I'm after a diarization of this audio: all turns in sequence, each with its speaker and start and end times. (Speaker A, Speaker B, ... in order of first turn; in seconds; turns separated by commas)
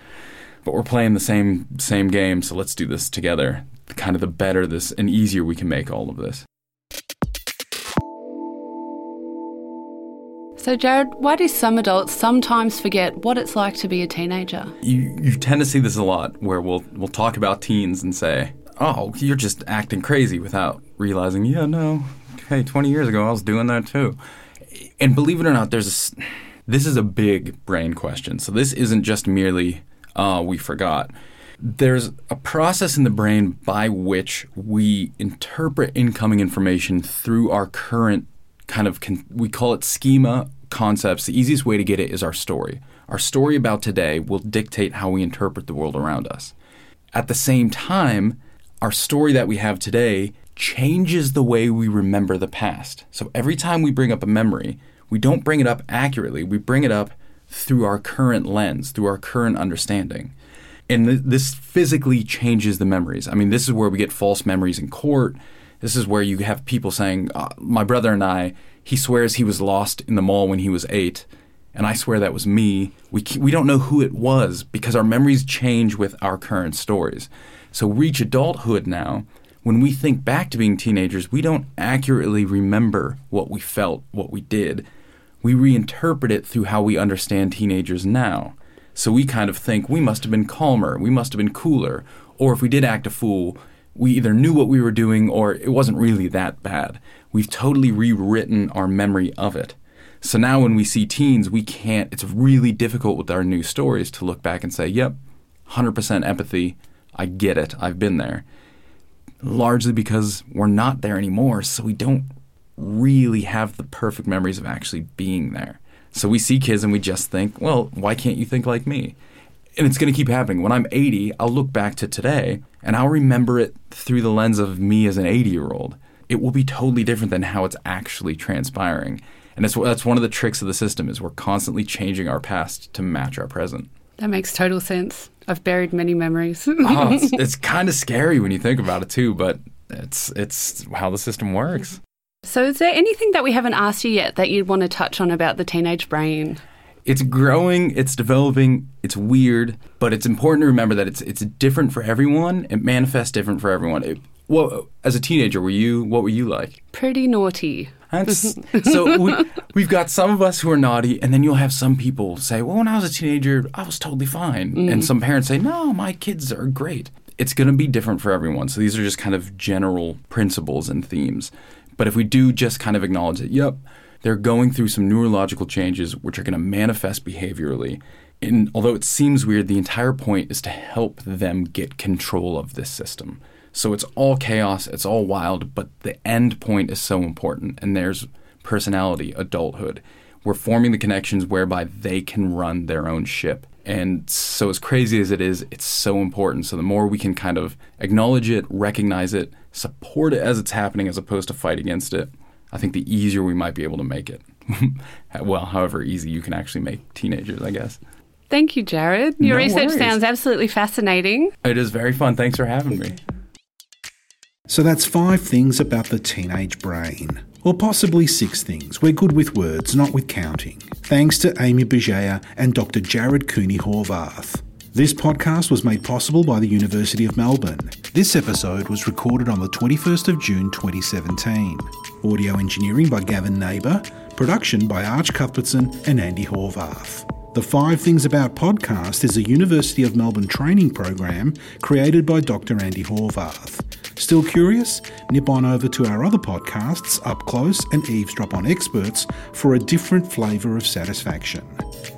Speaker A: 0.6-6.5, Speaker B: 10.6-14.7, Speaker A: 14.8-24.2, Speaker A: 24.7-46.5, Speaker A: 47.1-60.3, Speaker A: 60.9-84.9, Speaker A: 85.4-105.2, Speaker A: 105.7-108.5, Speaker A: 109.4-119.2, Speaker A: 119.8-133.9, Speaker B: 134.2-137.2, Speaker A: 136.8-142.0, Speaker B: 142.5-146.6, Speaker A: 147.1-156.8, Speaker B: 156.9-157.9, Speaker A: 158.1-208.0, Speaker B: 208.5-211.5, Speaker A: 209.4-210.2, Speaker A: 211.6-213.2, Speaker C: 214.7-251.7